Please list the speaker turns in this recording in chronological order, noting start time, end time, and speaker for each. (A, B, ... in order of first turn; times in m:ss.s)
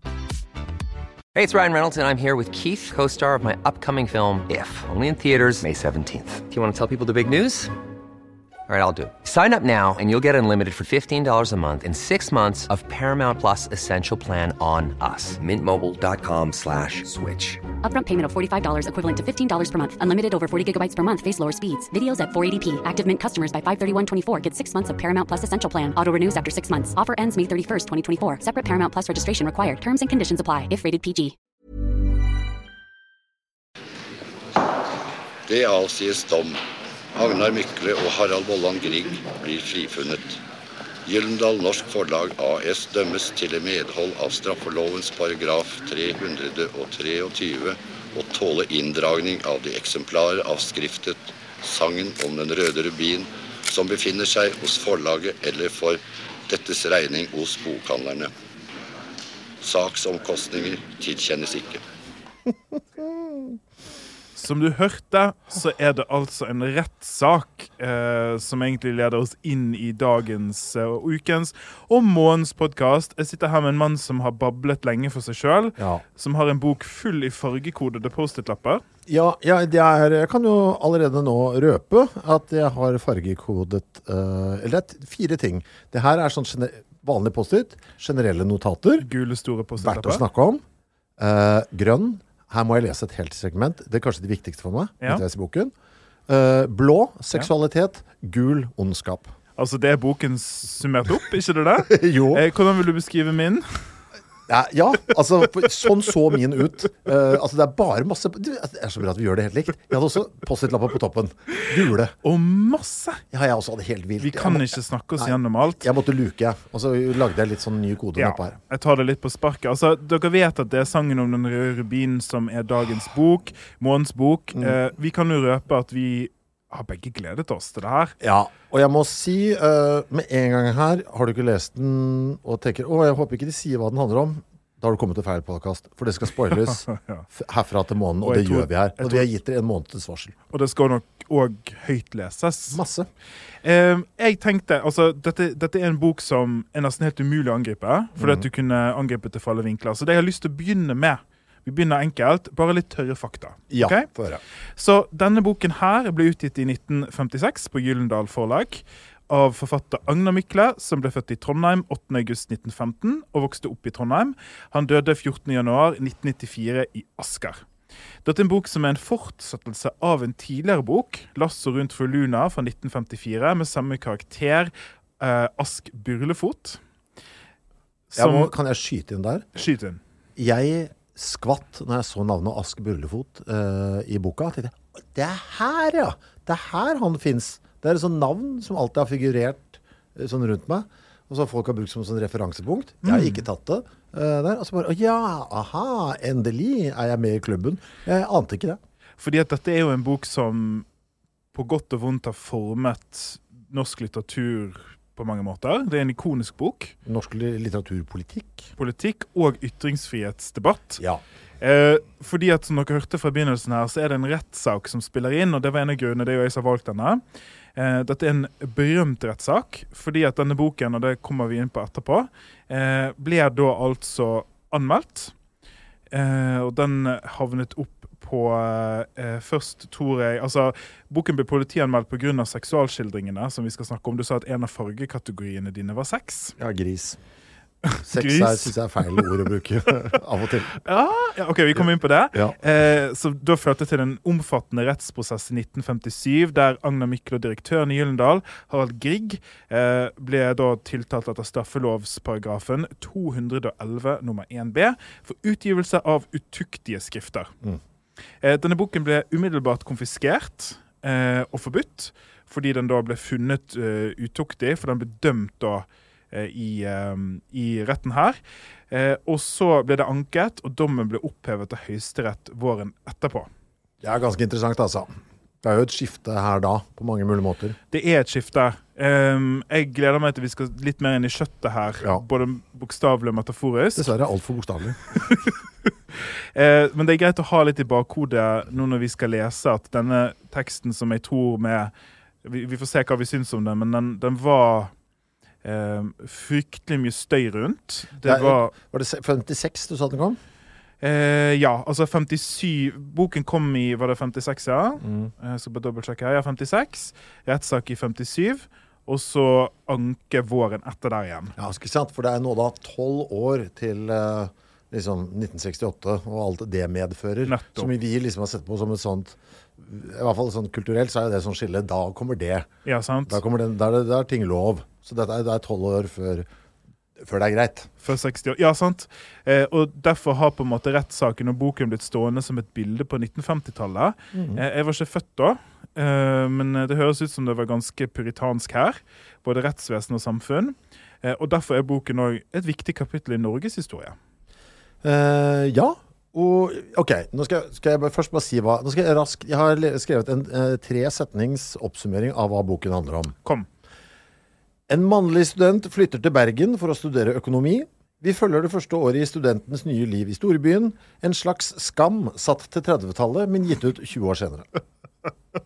0:01.3-0:07.7 A
0:08.7-0:17.7 A
0:17.8-0:31.3 B
0:35.5-0:36.6 C
0:37.2-0:40.4 C
0:41.0-0:58.3 C
0:59.6-1:01.8 C
1:03.0-1:03.4 D
1:04.4-1:18.8 E
1:15.8-1:16.0 D
1:19.1-1:29.1 D
1:29.0-1:30.2 E
1:29.8-1:30.6 D
1:31.2-1:35.7 D
1:36.3-1:39.3 D
1:39.6-1:44.0 E
1:41.9-1:42.4 D
1:44.5-1:52.2 D
1:52.2-1:53.2 E
1:53.3-1:58.5 D
1:54.2-1:55.9 E
1:58.2-2:08.2 E
2:08.2-2:20.4 D
2:16.8-2:17.2 E
2:18.2-2:19.2 E
2:20.5-2:22.8 E
2:22.7-2:23.1 D
2:23.6-2:34.1 E
2:28.2-2:28.5 D
2:33.7-2:34.4 D
2:34.8-2:47.6 E
2:48.2-2:56.8 E
2:58.1-2:58.5 E
2:58.2-2:59.4 D
2:59.5-3:00.0 E
3:00.4-3:18.8 D
3:13.0-3:13.4 E
3:19.2-3:20.8 E
3:21.5-3:26.9 E
3:27.0-3:28.7 D
3:28.8-3:31.0 E
3:31.6-3:37.2 E
3:37.8-3:45.3 E
3:46.1-3:56.6 E
3:56.6-3:57.2 D
3:57.8-3:59.3 E
3:58.0-4:00.7 D
4:00.8-4:17.5 E
4:18.4-4:28.4 E
4:28.9-4:33.5 E
4:34.0-4:37.8 D
4:37.9-4:44.1 E
4:44.0-4:45.0 D
4:45.1-4:51.9 E
4:52.4-4:54.9 E
4:55.6-4:58.7 E
4:58.2-5:00.4 D
5:01.0-5:11.5 E
5:05.0-5:05.3 D
5:11.6-5:22.7 D
5:17.5-5:17.9 E
5:22.8-5:23.4 E
5:23.3-5:26.5 D
5:27.2-5:27.9 D
5:28.0-5:44.2 E
5:34.3-5:34.6 D
5:45.0-5:53.4 D
5:54.9-6:04.8 D